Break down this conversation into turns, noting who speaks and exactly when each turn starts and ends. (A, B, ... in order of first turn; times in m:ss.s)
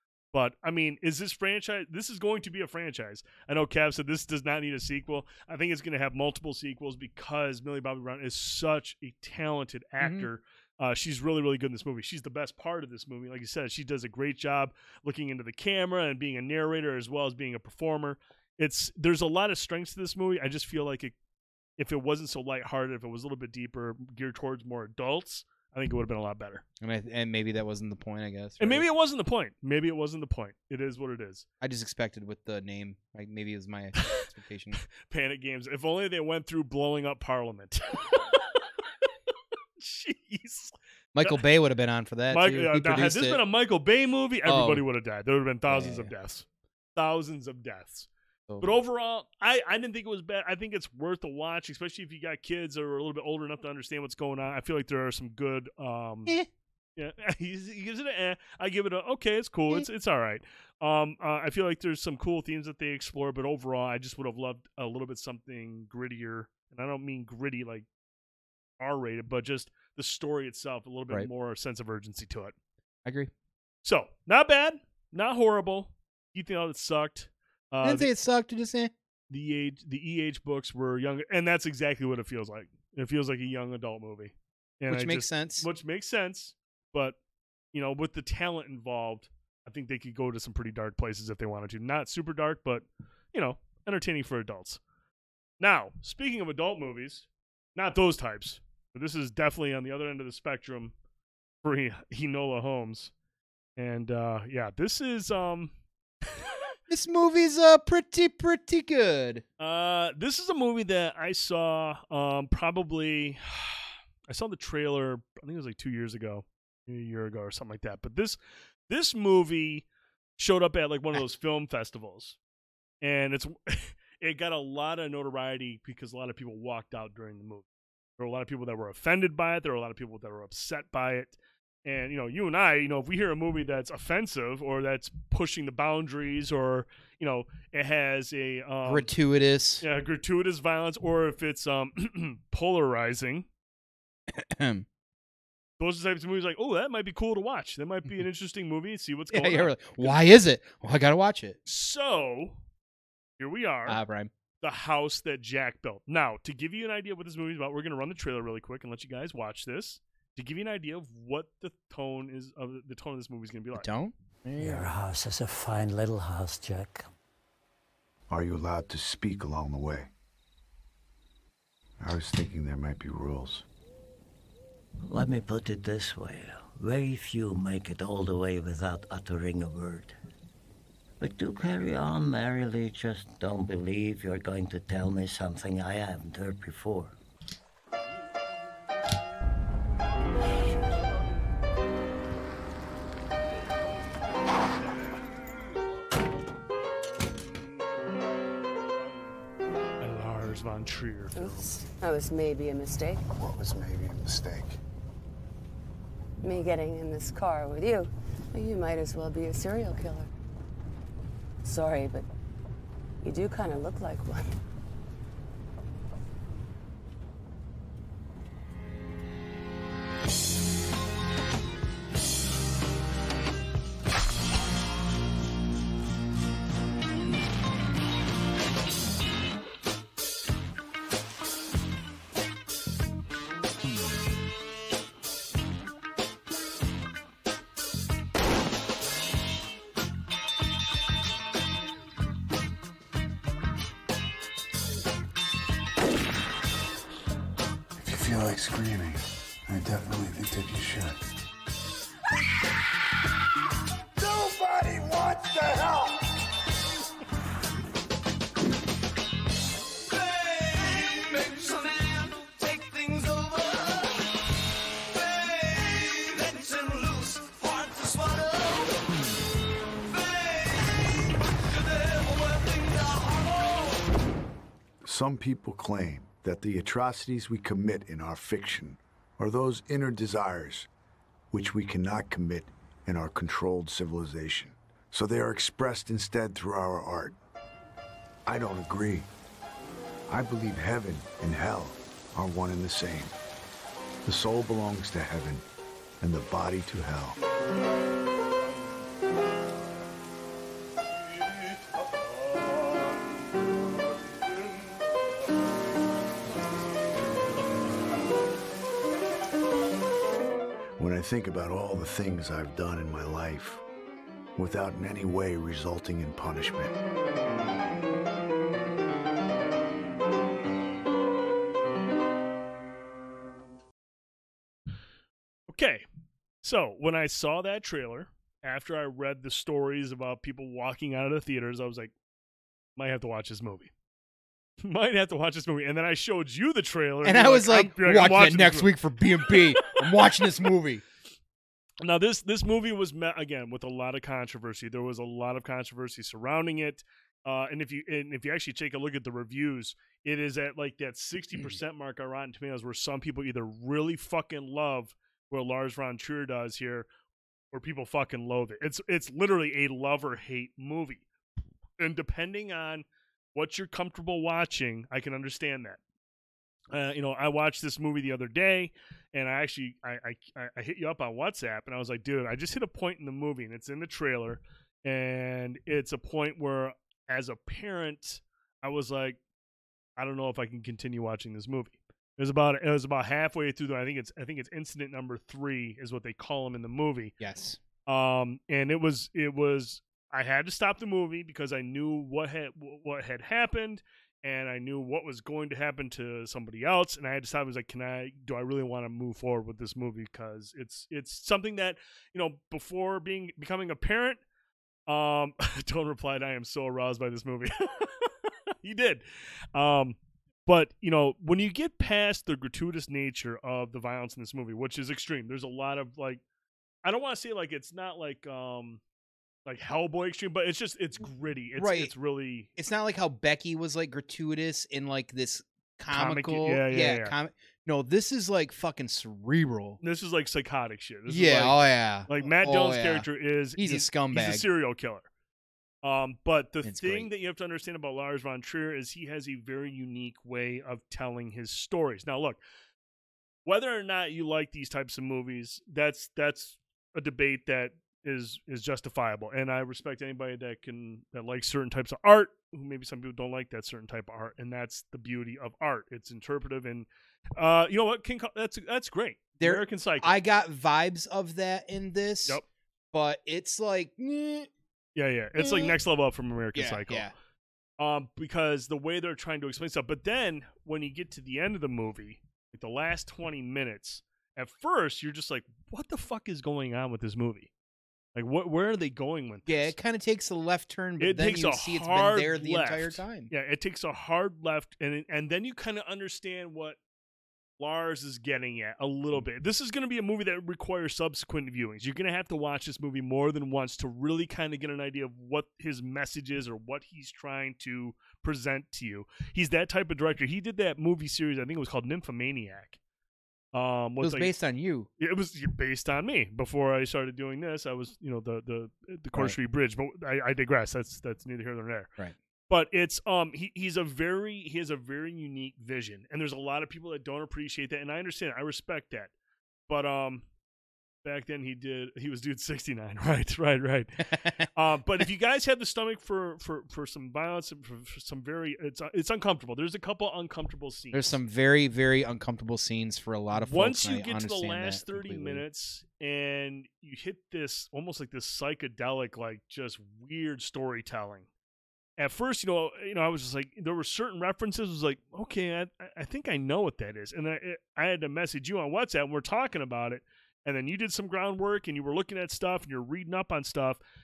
0:00.3-0:21.1 A
0:10.0-0:10.3 B
0:21.8-0:26.6 A
0:26.8-0:28.8 B
0:28.6-0:31.4 A
0:31.6-0:34.8 B
0:35.0-0:38.6 A
0:39.8-0:41.4 A
0:41.2-0:43.4 B
0:42.3-0:48.1 A
0:44.4-0:44.8 B
0:45.7-0:46.1 B
0:48.6-0:56.4 A
0:57.0-1:07.9 A
1:08.8-1:12.6 A
1:13.0-1:13.3 B
1:13.8-1:18.1 A
1:17.8-1:18.9 B
1:19.3-1:27.2 A
1:24.9-1:25.7 B
1:27.7-1:34.8 A
1:35.6-1:40.9 A
1:41.6-1:43.1 A
1:43.8-1:45.7 A
1:46.9-1:49.4 B
1:49.6-1:58.4 A
1:58.9-1:59.9 A
2:00.4-2:02.4 A
2:03.0-2:07.7 A
2:08.2-2:19.1 A
2:18.8-2:19.8 B
2:19.8-2:23.5 A
2:24.3-2:24.9 B
2:25.8-2:30.2 A
2:29.3-2:31.6 B
2:31.6-2:32.6 A
2:33.4-2:34.0 A
2:33.9-2:34.3 B
2:34.6-2:43.9 A
2:43.7-2:44.9 B
2:44.6-2:47.1 C
2:48.3-2:50.1 D
2:52.0-2:53.6 D
2:55.0-3:00.2 C
3:01.2-3:07.2 C
3:20.0-3:21.7 A
3:21.3-3:23.2 E
3:23.3-3:24.8 D
3:26.4-3:30.3 E
3:31.6-3:32.3 E
3:33.2-3:34.5 E
4:08.0-4:11.2 D
4:14.2-4:16.1 D
4:35.0-4:40.9 D
4:41.5-4:47.4 D
4:48.5-4:49.3 D
4:50.3-4:53.3 D
4:54.2-4:55.6 D
4:56.2-4:57.4 D
5:11.0-5:13.8 D
5:14.6-5:17.0 D
5:25.7-5:26.0 A
5:26.6-5:32.1 A
5:33.0-5:33.9 A
5:34.8-5:38.9 A
5:37.2-5:41.0 B
5:42.0-5:57.1 A
5:57.7-6:01.2 A
6:02.0-6:06.0 A
6:06.9-6:19.4 A
6:20.2-6:27.3 A
6:27.4-6:27.8 B
6:28.1-6:44.4 A
6:45.1-6:56.4 A
6:57.0-6:59.0 A
6:59.7-7:02.7 A
7:01.8-7:02.1 B
7:02.8-7:10.0 B
7:06.1-7:07.4 A
7:10.0-7:15.3 A
7:11.3-7:14.6 B
7:16.0-7:22.6 A
7:16.8-7:17.3 B
7:23.7-7:40.4 A
7:39.6-7:42.6 B
7:43.1-7:44.7 B
7:45.2-7:47.3 A
7:45.6-7:46.0 B
7:46.7-7:47.3 B
7:48.0-7:57.7 A
7:58.4-8:00.0 A
7:59.7-8:03.5 B
8:01.2-8:07.0 A
8:07.8-8:23.0 A
8:23.7-8:24.5 A
8:24.2-8:25.1 B
8:25.2-8:32.1 A
8:32.7-8:39.3 A
8:39.9-8:40.4 A
8:41.2-8:51.4 A
8:44.3-8:44.7 B
8:51.1-8:55.6 B
8:53.6-9:01.5 A
9:02.2-9:14.0 A